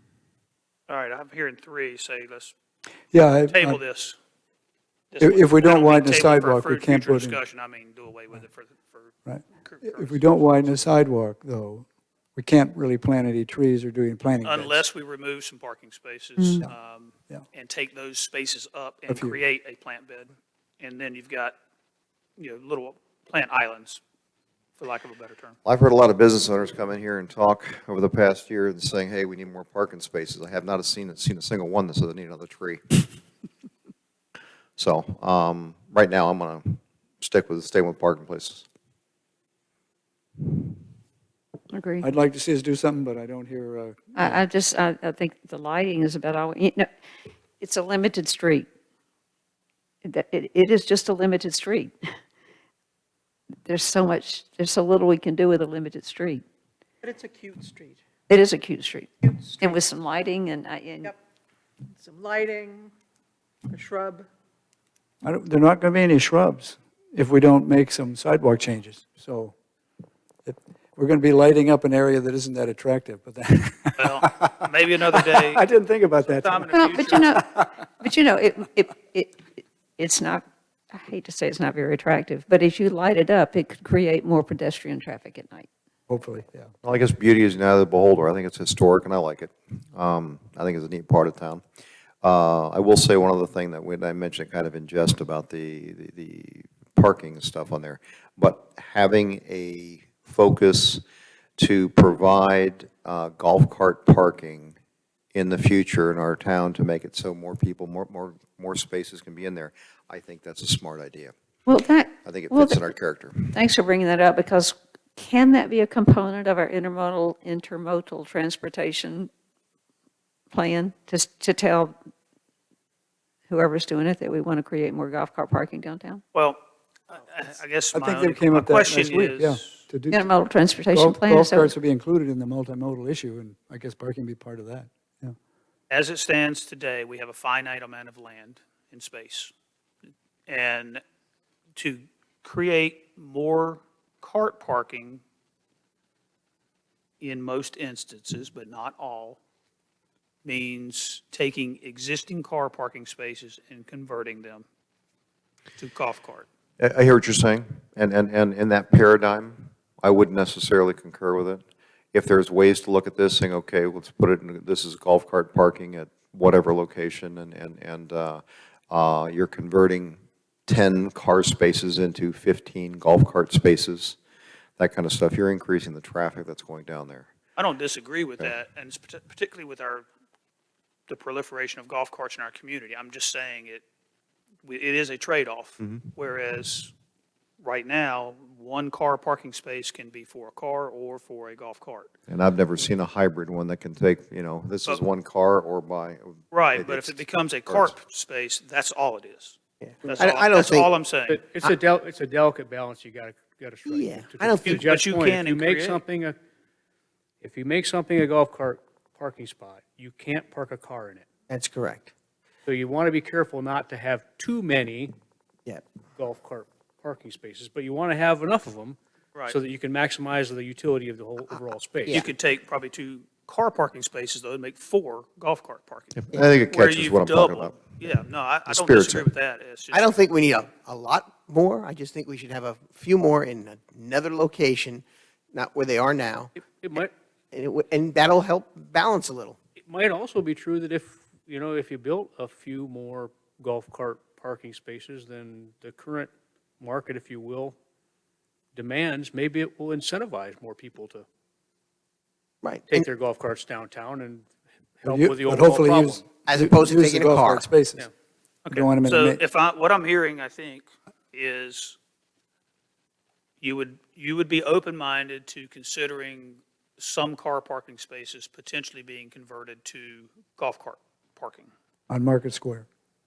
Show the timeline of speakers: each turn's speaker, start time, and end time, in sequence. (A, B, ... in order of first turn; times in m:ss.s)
0:00.9-0:02.5 A
0:03.1-0:03.8 B
0:03.5-0:04.2 A
0:05.1-0:10.6 A
0:05.2-0:07.4 B
0:09.3-0:14.8 B
0:14.4-0:21.6 A
0:16.4-0:16.6 C
0:19.1-0:19.4 B
0:22.4-0:24.0 A
0:24.8-0:25.6 A
0:25.6-0:33.0 D
0:34.8-0:38.6 D
0:41.7-0:42.1 C
0:42.0-0:44.4 B
0:44.2-0:46.9 C
0:47.6-0:48.7 C
0:50.0-0:51.9 C
0:53.7-0:56.4 C
0:57.0-0:58.0 E
0:58.3-1:01.1 C
1:01.9-1:02.9 E
1:03.7-1:04.3 E
1:05.2-1:09.5 B
1:10.5-1:17.7 B
1:14.0-1:15.6 A
1:16.2-1:17.4 A
1:16.7-1:19.4 C
1:20.0-1:25.7 C
1:26.1-1:26.7 B
1:26.8-1:31.6 D
1:32.2-1:41.0 D
1:41.6-1:44.8 D
1:45.3-1:51.3 D
1:51.7-1:52.8 C
1:52.2-1:53.5 D
1:53.5-1:59.3 C
2:00.5-2:02.0 C
2:03.5-2:06.2 C
2:06.3-2:06.6 A
2:07.1-2:09.8 A
2:07.9-2:10.3 B
2:10.1-2:11.7 C
2:10.9-2:15.4 B
2:15.9-2:19.5 A
2:20.5-2:21.0 A
2:21.8-2:25.2 A
2:27.2-2:29.4 A
2:30.4-2:34.7 A
2:35.8-2:36.5 A
2:36.8-2:41.6 D
2:42.1-2:54.2 D
2:54.8-2:57.3 D
2:57.6-3:00.1 A
3:01.1-3:03.8 A
3:04.6-3:06.9 A
3:07.6-3:12.1 A
3:12.3-3:18.0 D
3:16.5-3:21.4 A
3:19.8-3:20.9 F
3:21.3-3:26.4 G
3:23.9-3:24.8 F
3:24.6-3:26.0 A
3:27.4-3:31.3 G
3:31.5-3:32.1 F
3:32.7-3:35.1 G
3:36.2-3:39.0 G
3:39.5-3:42.2 G
3:42.1-3:50.1 A
3:46.2-3:48.0 D
3:48.7-3:49.3 D
3:49.9-3:56.5 F
3:56.6-3:57.1 G
3:57.5-3:59.6 F
3:59.8-4:07.8 G
4:08.8-4:11.3 G
4:12.6-4:13.1 F
4:12.9-4:14.5 G
4:15.0-4:16.2 G
4:15.1-4:18.1 B
4:16.5-4:17.7 F
4:18.7-4:22.0 A
4:18.7-4:19.4 B
4:23.6-4:31.7 A
4:32.1-4:32.9 B